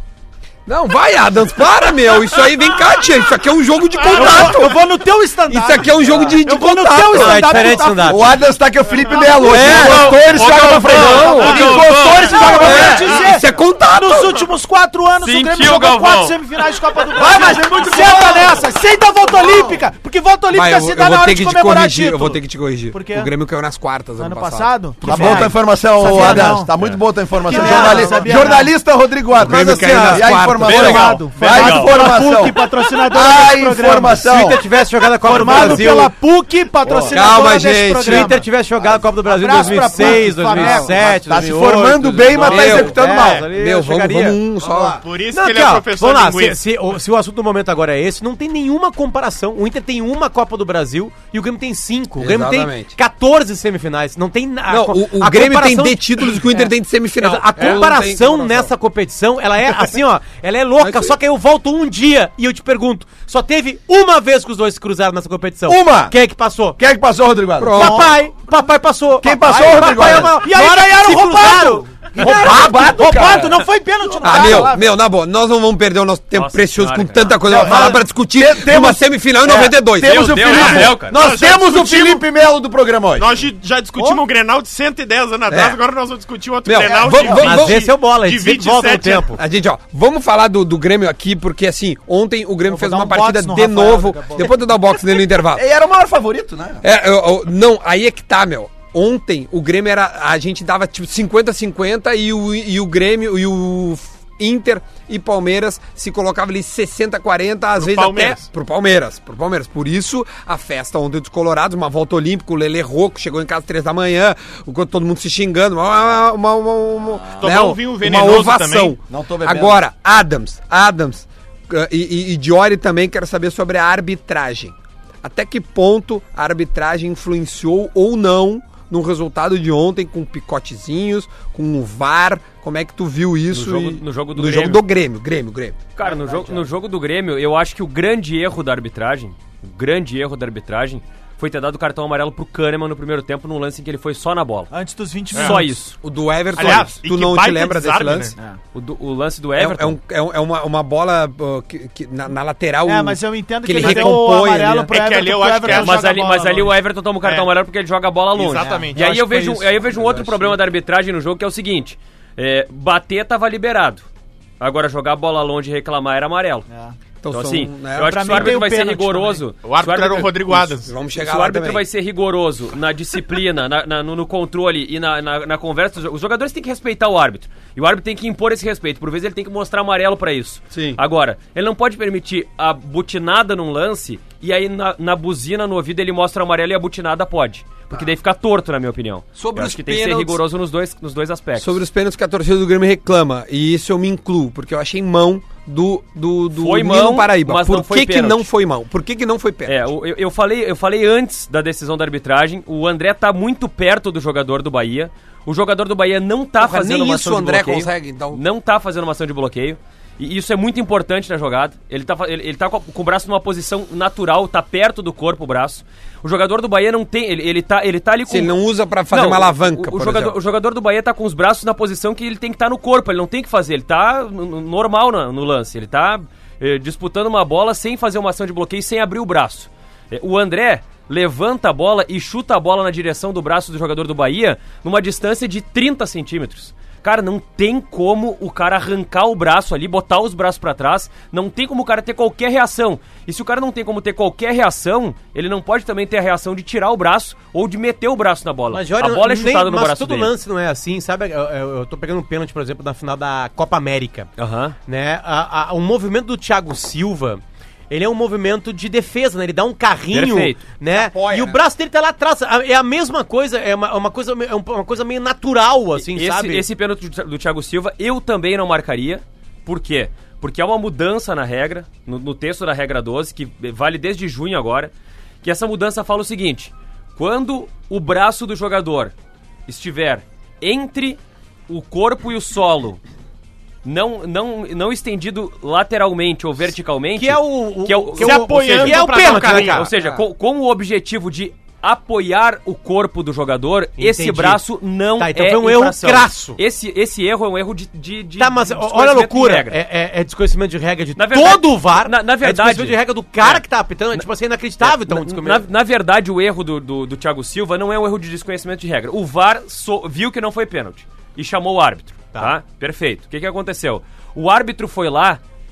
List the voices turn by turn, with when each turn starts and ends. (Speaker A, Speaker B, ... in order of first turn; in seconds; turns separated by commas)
Speaker A: 0.7-4.8, Speaker B: 4.1-8.4, Speaker C: 4.2-4.6, Speaker A: 5.5-7.8, Speaker D: 7.1-8.2, Speaker E: 8.0-13.1, Speaker B: 9.1-9.8, Speaker C: 9.2-12.5, Speaker A: 9.4-11.8, Speaker F: 9.8-10.2, Speaker B: 11.2-23.3, Speaker F: 11.6-12.4, Speaker A: 12.3-14.4, Speaker F: 15.2-16.6, Speaker E: 17.1-18.7, Speaker E: 19.4-19.7, Speaker A: 20.5-25.6, Speaker B: 24.2-26.7, Speaker E: 25.0-34.6, Speaker B: 27.4-28.7, Speaker D: 27.6-28.2, Speaker A: 29.4-31.2, Speaker D: 29.8-30.2, Speaker B: 30.5-34.5, Speaker F: 31.4-32.2, Speaker D: 34.2-36.1, Speaker B: 35.1-38.5, Speaker E: 35.3-36.0, Speaker E: 36.8-37.3, Speaker A: 37.1-38.3, Speaker D: 38.0-44.4, Speaker B: 39.1-41.2, Speaker E: 40.0-40.2, Speaker E: 41.0-43.4, Speaker A: 42.3-45.0, Speaker E: 44.6-45.0, Speaker C: 45.0-46.6, Speaker D: 45.3-66.8, Speaker A: 52.2-52.9, Speaker A: 54.7-58.7, Speaker A: 60.8-61.1, Speaker E: 65.7-66.2, Speaker E: 66.8-67.9, Speaker A: 67.6-68.1, Speaker D: 67.7-73.0, Speaker B: 67.7-68.2, Speaker E: 69.2-70.4, Speaker B: 69.5-74.9, Speaker E: 72.2-73.6, Speaker A: 74.2-81.0, Speaker E: 74.3-74.7, Speaker F: 76.3-77.4, Speaker E: 77.5-83.3, Speaker F: 80.0-81.2, Speaker C: 80.4-82.2, Speaker C: 83.2-89.3, Speaker A: 85.5-85.8, Speaker A: 86.6-87.9, Speaker E: 86.8-87.5, Speaker D: 87.4-89.4, Speaker A: 89.3-95.6, Speaker B: 92.7-94.6, Speaker E: 95.4-96.8, Speaker A: 96.8-135.8, Speaker C: 107.8-108.5, Speaker C: 117.4-119.0, Speaker E: 119.0-119.8, Speaker F: 133.5-134.8, Speaker F: 135.9-144.7, Speaker B: 136.0-136.6, Speaker B: 144.7-145.8, Speaker F: 145.3-145.9, Speaker A: 146.0-148.3, Speaker C: 146.5-148.3, Speaker F: 148.7-150.0, Speaker A: 149.6-154.9, Speaker B: 152.8-156.7, Speaker F: 153.8-154.1, Speaker C: 154.9-156.2, Speaker F: 155.7-164.1, Speaker C: 157.2-157.5, Speaker C: 158.3-159.3, Speaker B: 158.6-159.5, Speaker A: 159.8-160.6, Speaker F: 164.6-166.6, Speaker B: 166.7-166.9, Speaker A: 167.2-168.6, Speaker F: 167.3-191.8, Speaker B: 168.0-169.5, Speaker C: 169.6-170.9, Speaker A: 170.8-171.8, Speaker A: 180.7-181.0, Speaker A: 189.4-190.4, Speaker A: 191.6-199.8, Speaker F: 196.6-198.5, Speaker F: 199.6-218.6, Speaker A: 206.6-208.4, Speaker A: 218.2-220.3, Speaker F: 219.1-250.3, Speaker D: 248.7-254.3, Speaker F: 254.4-254.8, Speaker D: 254.9-266.6, Speaker F: 260.1-260.6, Speaker A: 260.9-261.6, Speaker F: 265.9-274.9, Speaker F: 275.4-279.1, Speaker F: 279.7-283.0, Speaker F: 283.8-299.8, Speaker D: 287.1-289.9, Speaker C: 288.2-289.9, Speaker A: 289.9-290.2, Speaker D: 294.0-294.6, Speaker D: 295.2-296.6, Speaker D: 298.4-305.6, Speaker F: 301.2-304.2, Speaker F: 304.8-315.4